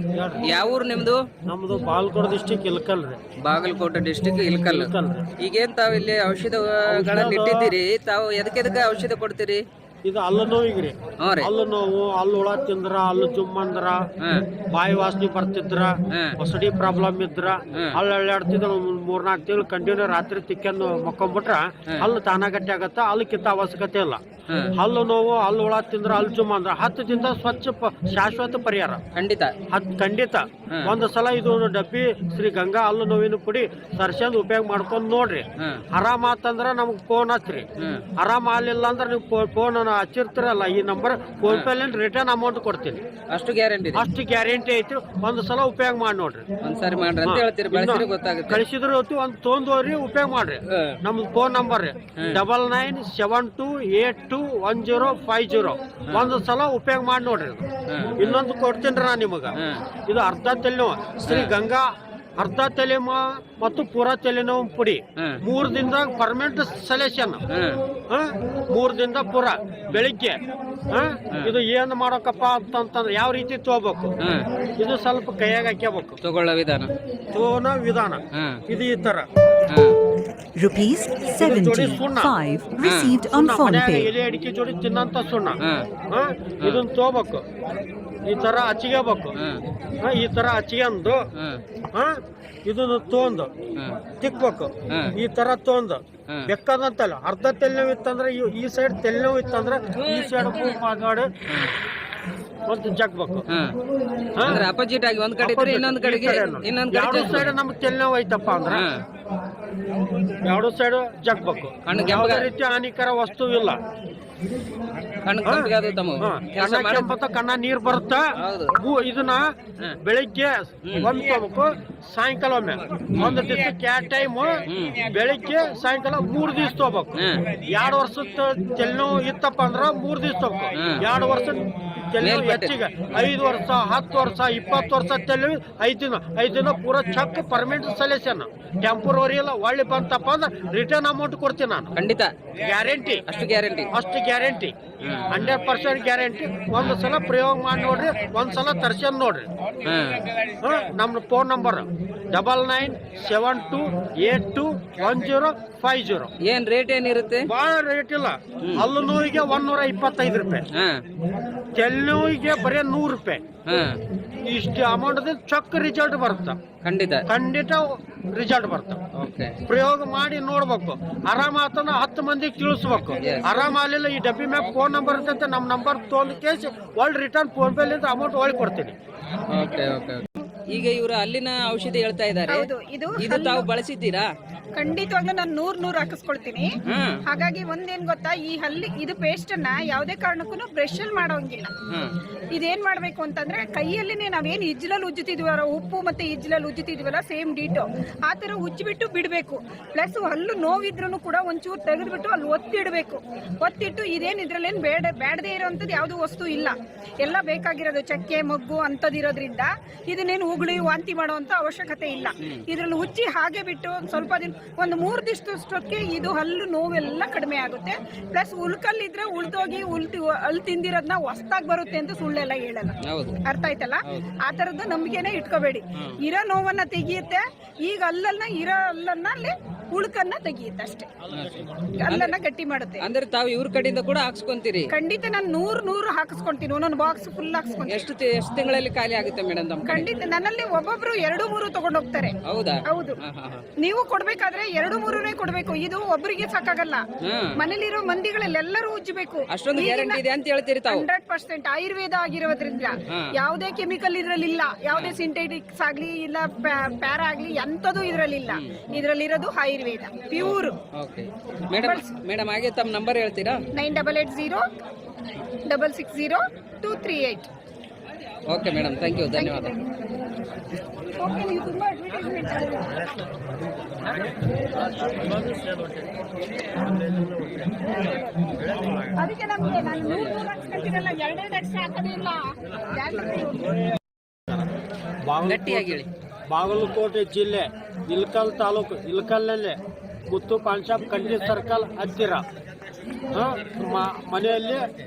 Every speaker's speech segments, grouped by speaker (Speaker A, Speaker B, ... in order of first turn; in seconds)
Speaker A: 0.1-0.4, 1.4-3.2, 4.6-5.2, 6.9-7.7, 10.0-14.0, 14.7-24.2, 24.7-29.0, 29.7-37.6, 38.2-43.0, 43.9-46.4, 47.2-57.6, 58.2-59.5, 60.1-67.4, 68.1-70.4, 70.9-74.1, 74.8-76.2, 77.3-79.3, 81.4-82.3, 83.3-85.6, 86.1-87.4, 88.2-89.3, 90.0-91.2, 91.9-93.5, 94.2-101.3, 102.7-103.5, 104.3-104.6, 105.4-108.8, 110.4-113.8, 115.4-141.9, 142.6-143.2, 143.9-144.7, 145.3-149.5, 150.6-156.3, 157.4-160.7, 161.7-163.4, 164.4-166.6, 167.3-169.0, 169.7-178.9, 274.9-275.9, 276.9-277.7, 278.6-279.1, 285.2-289.8, 290.3-292.4, 293.3-294.9
Speaker B: 0.4-1.2, 3.4-9.6, 11.2-11.5, 16.1-16.3, 29.1-29.5, 37.8-38.0, 43.3-44.1, 46.6-48.6, 57.9-58.4, 59.5-59.8, 61.2-61.5, 67.5-67.8, 76.2-76.9, 78.3-78.6, 79.7-80.0, 82.8-83.2, 85.6-85.9, 89.3-89.6, 91.3-91.6, 104.4-107.5, 108.7-109.0, 111.8-112.5, 115.2-117.1, 118.4-118.8, 120.8-121.1, 123.1-123.4, 124.7-125.0, 127.1-127.4, 130.7-131.0, 132.2-132.8, 141.9-142.3, 143.3-143.9, 145.0-145.5, 149.8-150.2, 156.4-157.5, 158.6-158.9, 160.7-161.0, 163.7-163.9, 166.8-167.2, 169.2-169.6, 173.2-173.5, 179.5-184.2, 186.9-187.2, 223.0-223.4, 231.3-232.3, 233.0-234.9, 237.9-240.1, 242.5-243.6, 247.2-247.5, 249.5-251.0, 258.5-259.0, 260.4-263.6, 268.5-269.7, 279.8-280.4, 285.4-286.1
Speaker C: 80.5-84.1
Speaker D: 182.5-183.7, 184.7-186.7, 187.3-191.7, 192.5-231.1, 232.0-233.0, 234.9-238.1, 239.9-243.2, 243.8-247.0, 247.6-250.2, 250.9-260.8, 261.8-262.1, 263.7-264.6, 265.6-267.5, 269.4-269.8, 271.2-273.0, 277.9-278.6, 279.1-283.7